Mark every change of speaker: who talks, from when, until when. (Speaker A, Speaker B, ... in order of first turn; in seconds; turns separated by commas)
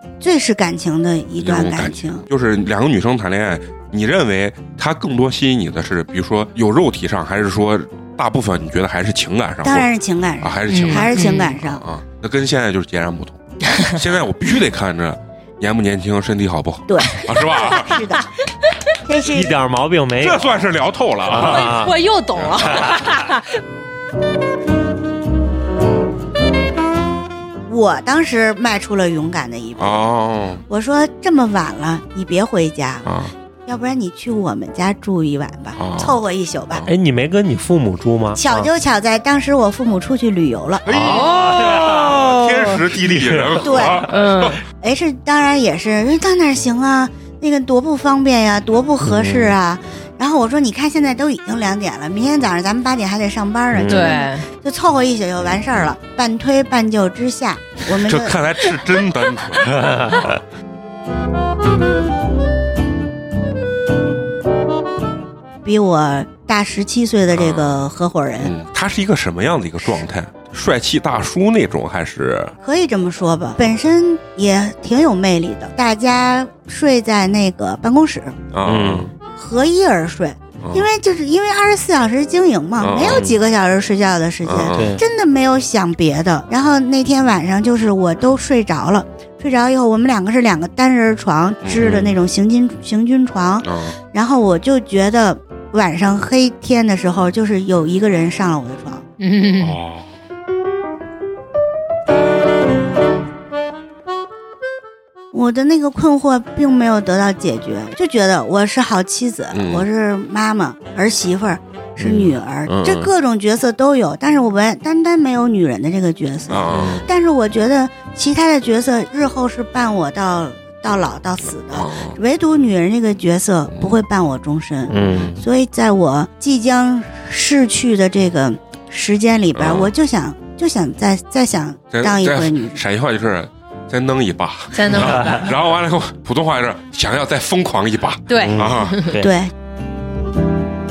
Speaker A: 0.2-2.3, Speaker B: 1.4-9.9, Speaker A: 9.6-11.8, Speaker B: 10.4-18.1, Speaker C: 10.7-11.5, Speaker A: 16.9-18.3, Speaker A: 18.9-19.6, Speaker D: 19.3-20.5, Speaker B: 20.2-21.7, Speaker D: 21.3-21.9, Speaker C: 21.4-23.4, Speaker B: 22.4-23.1, Speaker D: 22.6-23.0, Speaker A: 27.7-30.1, Speaker B: 29.8-30.6, Speaker A: 30.7-33.1, Speaker B: 33.0-33.3, Speaker A: 33.6-36.9, Speaker B: 35.8-36.2, Speaker D: 36.9-38.7, Speaker A: 38.4-40.9, Speaker B: 40.9-44.6, Speaker D: 40.9-43.9, Speaker C: 41.0-42.3, Speaker A: 43.6-44.1, Speaker C: 44.1-44.6, Speaker A: 44.6-58.7, Speaker D: 49.0-49.5, Speaker D: 53.7-54.0, Speaker C: 53.9-54.5, Speaker B: 57.9-60.3, Speaker D: 59.8-60.2, Speaker A: 65.6-68.5, Speaker B: 67.3-67.8, Speaker B: 68.4-72.5, Speaker A: 72.6-78.4, Speaker B: 78.5-79.1, Speaker D: 78.7-79.1, Speaker A: 79.3-99.0, Speaker B: 80.6-80.8, Speaker B: 82.8-83.3, Speaker D: 83.0-83.4, Speaker B: 84.4-85.0, Speaker D: 84.7-85.0, Speaker B: 91.6-92.0, Speaker D: 91.8-92.1, Speaker B: 93.6-94.0, Speaker C: 99.2-99.8, Speaker B: 99.6-100.1, Speaker A: 105.3-132.8, Speaker B: 109.5-109.8, Speaker B: 112.0-113.1, Speaker B: 116.5-117.0, Speaker D: 116.7-117.0, Speaker B: 121.7-122.2, Speaker D: 124.9-125.4, Speaker B: 129.5-129.9, Speaker B: 131.9-139.1, Speaker C: 134.7-135.5, Speaker D: 135.0-135.4, Speaker C: 138.3-139.2, Speaker D: 138.4-139.3, Speaker A: 139.2-139.5